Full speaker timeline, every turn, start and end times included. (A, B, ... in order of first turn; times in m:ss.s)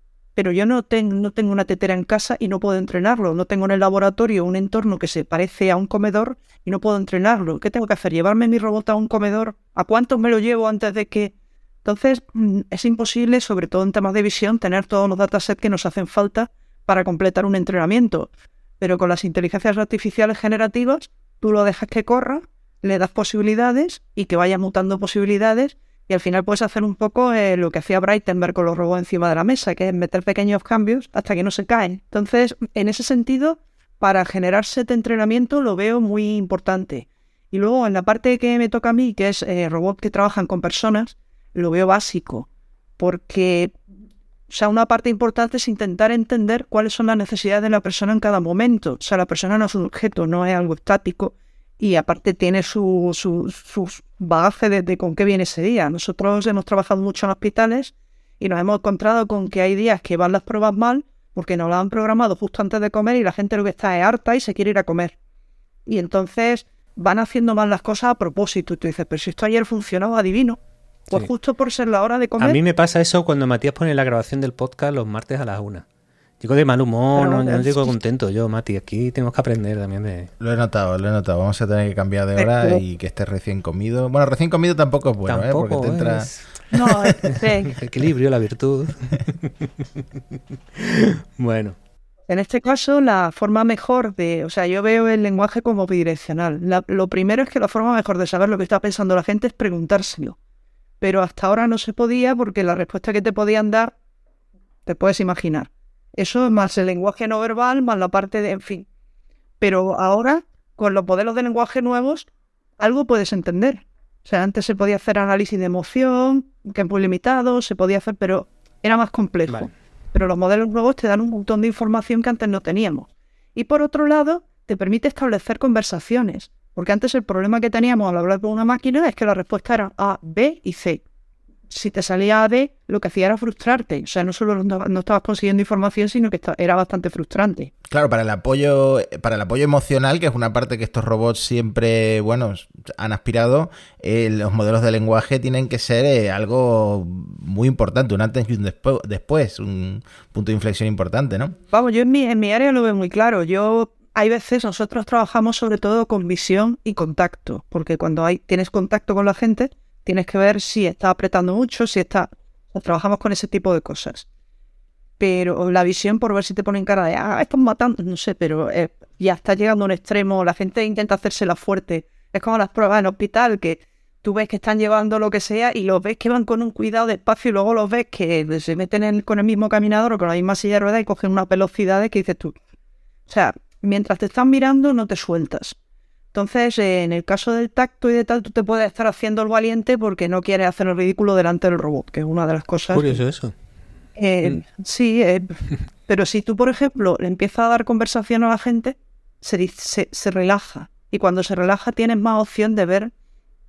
0:00.4-0:11.3 A
0:11.8-0:42.5 A
0:43.0-0:43.7 A
0:44.5-1:05.2 A
1:05.9-1:10.6 A
1:11.1-1:12.6 A
1:12.4-1:15.8 B
1:16.4-1:20.3 B
1:17.2-1:18.0 A
1:20.4-1:26.3 C
1:22.4-1:22.8 A
1:25.3-1:26.6 B
1:26.7-1:27.7 A
1:27.3-1:30.0 B
1:30.8-1:31.8 B
1:32.3-1:40.4 A
1:41.0-1:43.9 A
1:44.9-1:48.9 A
1:49.6-1:52.3 A
1:52.8-2:11.0 A
2:11.7-2:17.7 A
2:17.9-2:31.5 C
2:31.7-2:44.3 A
2:45.2-3:02.6 A
3:03.3-3:05.8 A
3:06.3-3:13.2 A
3:12.9-3:13.5 B
3:14.2-3:23.1 A